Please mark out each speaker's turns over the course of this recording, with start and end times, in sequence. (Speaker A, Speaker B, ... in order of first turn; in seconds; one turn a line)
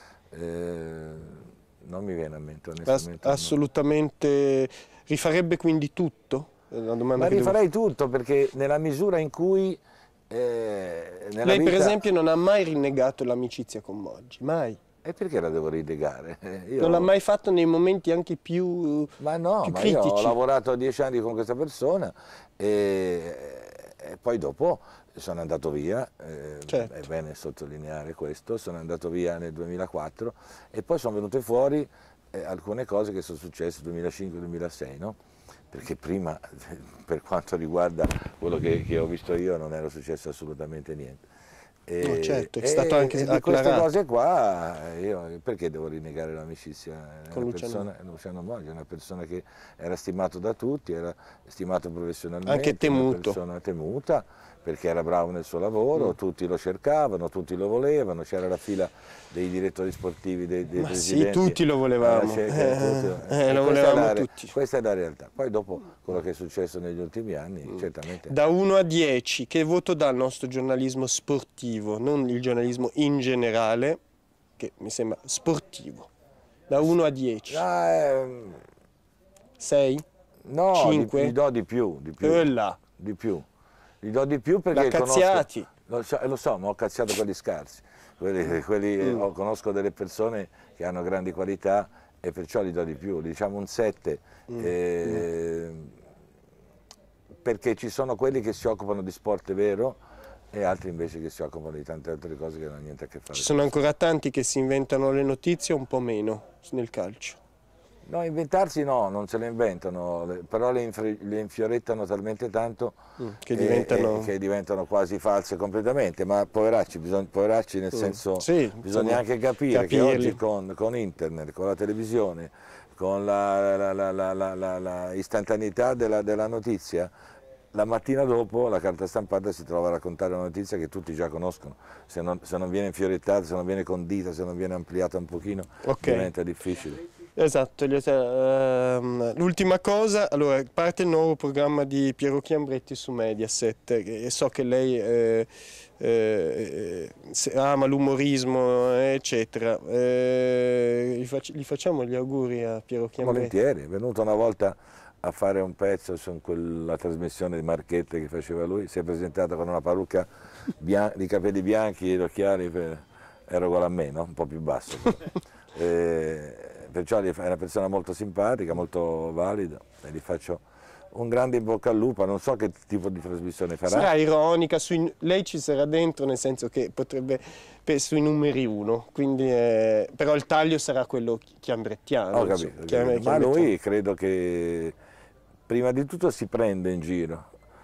Speaker A: 0.3-3.5
Speaker B: 2.9-7.6
Speaker A: 7.2-12.0
Speaker B: 11.4-14.8
Speaker A: 15.0-17.1
Speaker B: 16.8-20.4
Speaker A: 19.2-35.2
Speaker B: 26.7-27.1
Speaker A: 35.7-41.2
Speaker A: 41.9-68.3
Speaker B: 42.0-43.9
Speaker B: 47.3-47.9
Speaker B: 52.5-53.4
Speaker B: 60.8-64.5
Speaker B: 67.7-74.0
Speaker B: 74.6-76.1
Speaker B: 76.7-77.6
Speaker A: 77.5-78.6
Speaker B: 79.6-80.0
Speaker A: 80.5-83.5
Speaker B: 80.7-81.3
Speaker B: 82.2-82.8
Speaker A: 84.0-95.9
Speaker B: 84.7-85.7
Speaker B: 94.5-95.2
Speaker A: 97.4-100.0
Speaker A: 100.5-103.6
Speaker B: 103.3-107.4
Speaker A: 108.1-113.0
Speaker B: 113.2-114.3
Speaker A: 113.5-127.1
Speaker B: 117.9-120.4
Speaker A: 127.7-137.0
Speaker B: 135.8-136.3
Speaker B: 137.4-145.5
Speaker B: 146.0-153.5
Speaker A: 153.2-160.3
Speaker A: 160.8-174.1
Speaker B: 173.9-183.7
Speaker A: 182.3-185.0
Speaker A: 185.7-187.5